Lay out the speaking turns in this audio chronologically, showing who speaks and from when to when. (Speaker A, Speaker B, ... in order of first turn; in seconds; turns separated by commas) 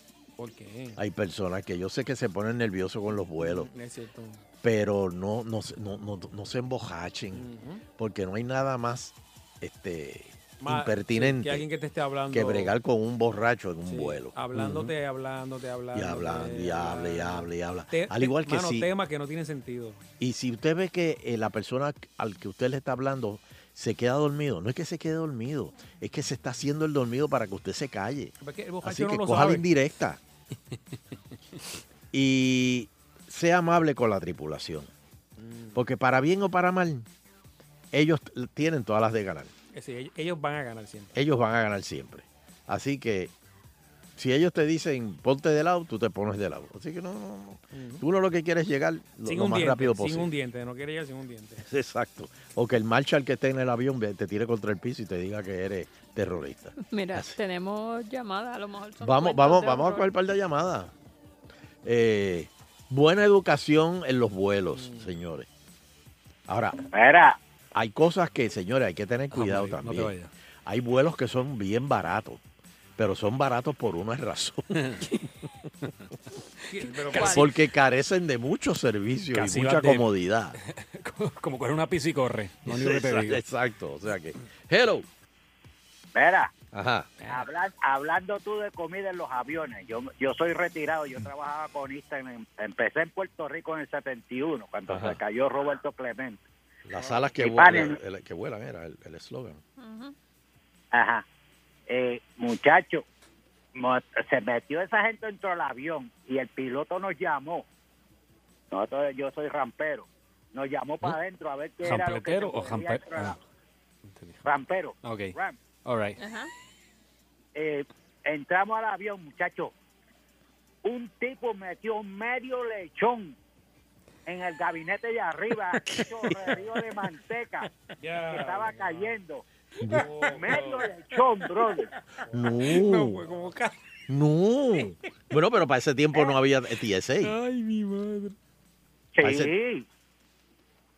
Speaker A: 0.4-1.0, Speaker B: 1.0-3.7, Speaker A: 3.4-4.4, Speaker B: 4.6-7.5, Speaker A: 7.3-7.8, Speaker B: 8.0-11.7, Speaker A: 10.6-12.7, Speaker B: 12.3-14.9, Speaker A: 13.9-20.0, Speaker B: 15.9-18.9, Speaker B: 20.2-30.2, Speaker A: 28.4-29.7, Speaker B: 32.1-34.9, Speaker A: 35.4-35.8, Speaker B: 35.8-37.1, Speaker B: 37.9-39.5, Speaker A: 39.7-41.2, Speaker B: 41.1-43.3, Speaker B: 44.2-50.3, Speaker A: 47.7-48.0, Speaker A: 49.2-51.6, Speaker B: 51.6-57.4, Speaker C: 56.8-60.1, Speaker B: 59.0-60.9, Speaker B: 61.9-65.5, Speaker A: 64.7-65.1, Speaker B: 66.5-66.8, Speaker D: 66.9-67.4, Speaker B: 67.8-70.1, Speaker E: 69.3-70.3, Speaker B: 70.7-72.4, Speaker B: 73.0-74.8, Speaker E: 74.8-75.2, Speaker A: 76.7-77.5, Speaker E: 76.8-77.4, Speaker B: 77.2-80.6, Speaker E: 79.3-80.1, Speaker E: 80.7-83.4, Speaker B: 82.7-85.1, Speaker D: 86.2-86.5, Speaker B: 86.7-87.2, Speaker A: 87.2-87.5, Speaker D: 87.3-96.4, Speaker B: 94.9-95.2, Speaker B: 96.8-99.6, Speaker A: 97.0-97.4, Speaker D: 97.4-98.0, Speaker C: 99.8-100.2, Speaker D: 100.9-101.2, Speaker D: 101.9-103.0, Speaker D: 103.8-107.7, Speaker D: 108.7-113.4, Speaker E: 111.8-113.4, Speaker E: 114.1-114.5, Speaker D: 114.4-115.6, Speaker E: 115.0-116.2, Speaker C: 116.2-116.5, Speaker D: 117.5-119.7, Speaker D: 120.8-123.3, Speaker D: 124.3-127.7, Speaker E: 125.8-126.3, Speaker A: 128.0-129.2, Speaker D: 128.3-129.4, Speaker B: 129.8-130.1, Speaker A: 129.9-130.9, Speaker D: 130.3-131.9, Speaker A: 131.6-133.6, Speaker B: 132.3-133.2, Speaker E: 132.7-133.7, Speaker B: 134.1-137.3, Speaker E: 137.4-138.3, Speaker A: 137.5-138.0, Speaker D: 139.2-139.8, Speaker B: 139.2-139.5